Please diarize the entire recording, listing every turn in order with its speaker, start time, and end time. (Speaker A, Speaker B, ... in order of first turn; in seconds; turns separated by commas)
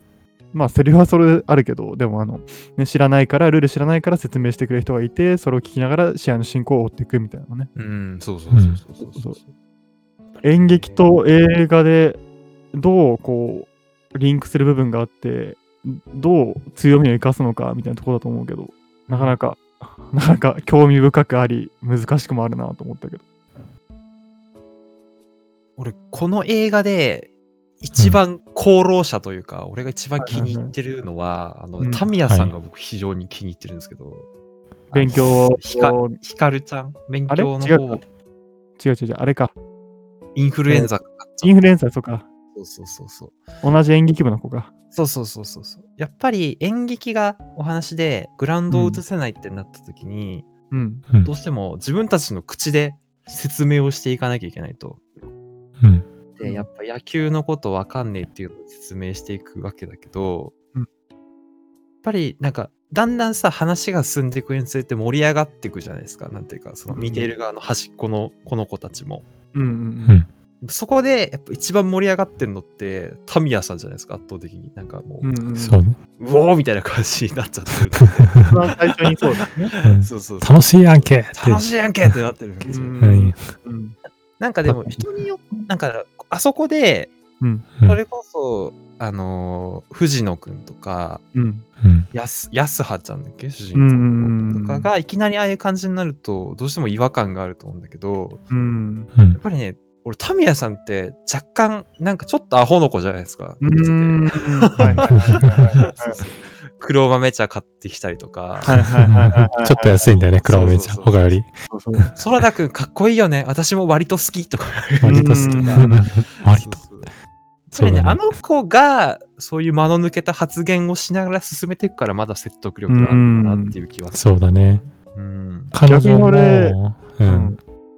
Speaker A: 0.5-7.7, Speaker B: 7.7-9.5, Speaker C: 8.5-8.8, Speaker A: 9.1-9.4, Speaker A: 10.4-12.2, Speaker B: 10.6-11.0, Speaker A: 12.7-23.2, Speaker B: 19.1-19.4, Speaker B: 25.8-34.3, Speaker A: 30.2-30.7, Speaker A: 31.8-32.1, Speaker C: 32.3-32.5, Speaker B: 34.9-38.0, Speaker A: 34.9-36.2, Speaker A: 37.3-38.0, Speaker A: 38.8-39.5, Speaker B: 40.3-41.7, Speaker A: 40.7-42.2, Speaker B: 42.5-43.4, Speaker A: 43.6-44.7, Speaker B: 44.9-50.5, Speaker A: 48.7-49.0, Speaker A: 50.7-51.0, Speaker B: 51.2-55.0, Speaker C: 55.8-56.1, Speaker B: 56.3-60.5, Speaker A: 56.4-56.7, Speaker B: 62.0-69.2, Speaker A: 66.9-67.3, Speaker A: 69.5-70.2, Speaker B: 70.6-75.3, Speaker A: 75.2-75.8, Speaker C: 75.6-76.0, Speaker B: 76.2-80.7, Speaker C: 78.2-78.5, Speaker A: 78.5-79.7, Speaker C: 79.8-82.1, Speaker B: 81.3-83.0, Speaker A: 82.6-84.0, Speaker C: 83.0-83.4, Speaker B: 84.4-87.1, Speaker A: 84.6-85.0, Speaker A: 87.4-87.7, Speaker B: 87.8-91.2, Speaker A: 91.3-91.6, Speaker C: 91.8-92.1, Speaker B: 92.1-98.4, Speaker A: 93.7-94.9, Speaker A: 98.5-99.1, Speaker C: 99.1-99.4, Speaker B: 99.3-108.9, Speaker A: 103.6-106.2, Speaker C: 104.8-105.7, Speaker A: 108.7-110.0, Speaker C: 108.7-112.1, Speaker B: 110.0-111.3, Speaker A: 111.7-112.1, Speaker B: 112.1-117.1, Speaker C: 115.0-116.8, Speaker A: 115.0-116.1, Speaker B: 117.7-124.2, Speaker C: 117.7-118.2, Speaker A: 122.9-123.8, Speaker C: 124.1-124.8, Speaker B: 125.1-125.7, Speaker C: 125.7-127.6, Speaker A: 125.8-127.6